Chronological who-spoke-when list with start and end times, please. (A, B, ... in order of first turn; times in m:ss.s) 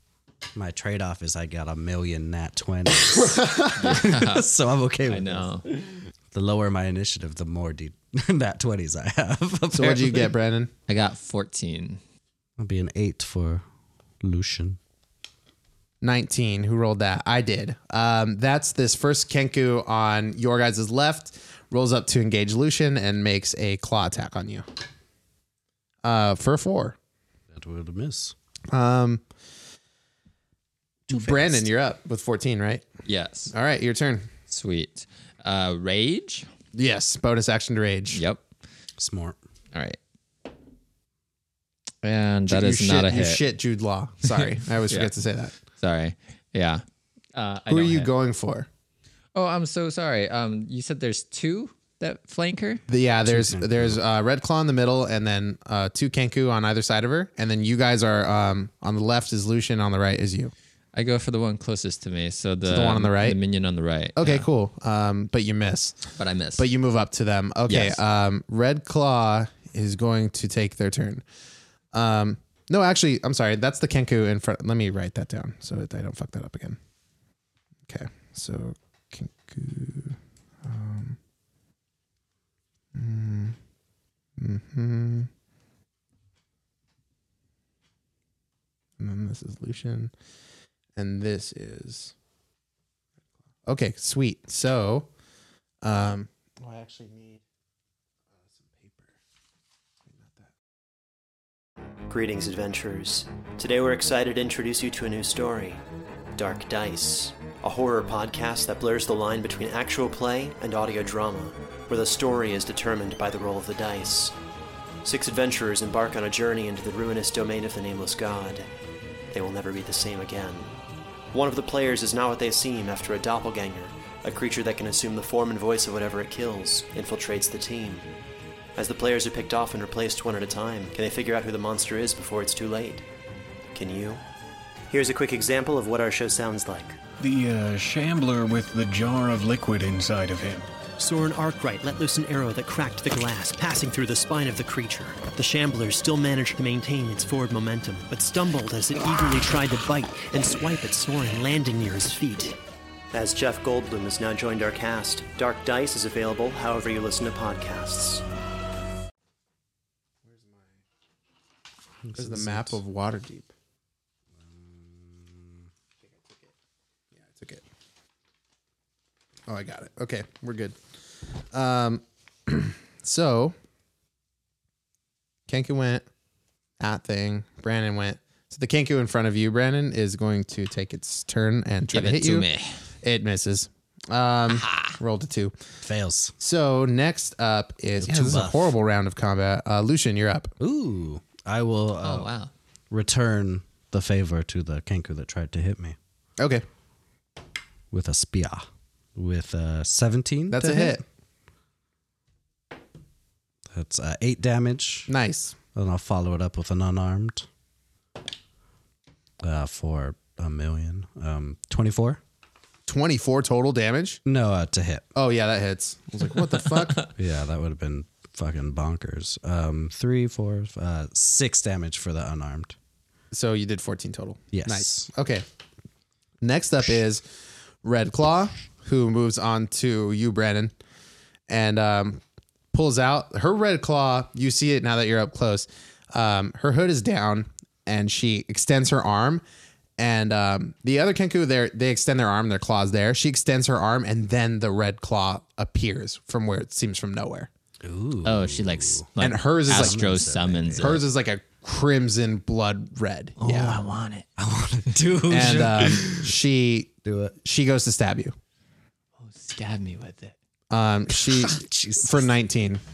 0:00.5-0:10.3 A
0:03.7-0:04.4 B
0:05.1-0:05.6 B
0:09.7-0:10.7 C
0:10.9-0:12.0 B
0:12.6-0:13.6 A
0:14.2-0:14.8 A
0:16.0-0:24.6 C
0:26.0-0:27.0 C
0:27.5-0:28.3 A
0:28.7-0:29.2 C
0:31.1-0:31.6 A
0:31.1-0:32.8 C
0:33.0-0:33.5 B
0:33.5-0:34.3 C
0:34.5-0:36.5 B
0:36.7-0:38.2 C
0:38.1-0:38.4 B
0:39.0-0:39.4 A
0:39.7-0:40.0 B
0:42.0-0:43.4 B
0:42.5-0:45.5 C
0:44.3-0:45.1 B
0:45.8-0:46.8 B
0:47.3-0:48.1 B
0:47.7-0:48.7 C
0:49.3-0:52.8 B
0:52.9-1:00.5 C
0:53.2-0:54.0 A
1:00.9-1:04.5 B
1:02.6-1:03.4 C
1:04.2-1:06.0 C
1:06.2-1:06.7 B
1:06.6-1:11.2 C
1:07.7-1:08.0 B
1:11.9-1:16.8 C
1:17.9-1:21.2 C
1:22.9-1:23.6 C
1:24.4-1:25.3 C
1:29.0-1:30.1 C
1:31.0-1:32.1 C
1:33.6-1:35.1 C
1:35.8-1:37.4 C
1:38.5-1:39.1 C
1:40.1-1:40.5 C
1:42.1-1:45.8 D
1:46.4-1:54.3 D
1:55.0-1:58.7 D
1:59.3-2:00.7 D
2:01.3-2:08.0 D
2:08.8-2:13.0 D
2:13.7-2:14.2 D
2:14.9-2:17.0 D
2:17.2-2:20.7 E
2:21.0-2:32.6 D
2:33.1-2:38.2 D
2:40.2-2:40.6 C
2:42.0-2:42.8 A
2:42.2-2:43.5 C
2:44.4-2:45.7 A
2:47.2-2:47.6 C
2:49.5-2:50.8 C
2:51.5-2:53.5 C
2:55.5-2:56.0 C
2:56.8-3:02.5 C
3:01.9-3:02.8 B
3:03.0-3:05.5 C
3:04.5-3:04.9 B
3:05.8-3:06.3 A
3:06.4-3:10.5 C
3:08.0-3:08.7 A
3:10.6-3:12.3 A
3:12.0-3:12.5 B
3:12.9-3:16.0 A
3:17.9-3:21.0 A
3:20.5-3:21.0 C
3:23.7-3:25.1 A
3:25.1-3:25.6 C
3:25.7-3:27.5 A
3:29.4-3:32.2 A
3:32.9-3:34.2 C
3:34.2-3:35.1 A
3:35.1-3:37.1 C
3:37.1-3:42.8 A
3:43.3-3:45.4 C
3:44.5-3:45.1 A
3:46.4-3:47.2 C
3:47.8-3:50.7 C
3:51.5-3:52.2 C
3:52.7-3:59.4 C
4:00.0-4:07.5 C
4:07.8-4:09.1 A
4:08.2-4:11.0 B
4:09.2-4:10.0 C
4:09.7-4:11.0 A
4:10.8-4:13.8 C
4:13.4-4:13.8 A
4:13.4-4:14.2 B
4:14.4-4:16.4 A
4:15.3-4:18.3 C
4:17.0-4:17.4 A
4:19.2-4:20.3 B
4:20.7-4:22.8 C
4:21.1-4:22.3 A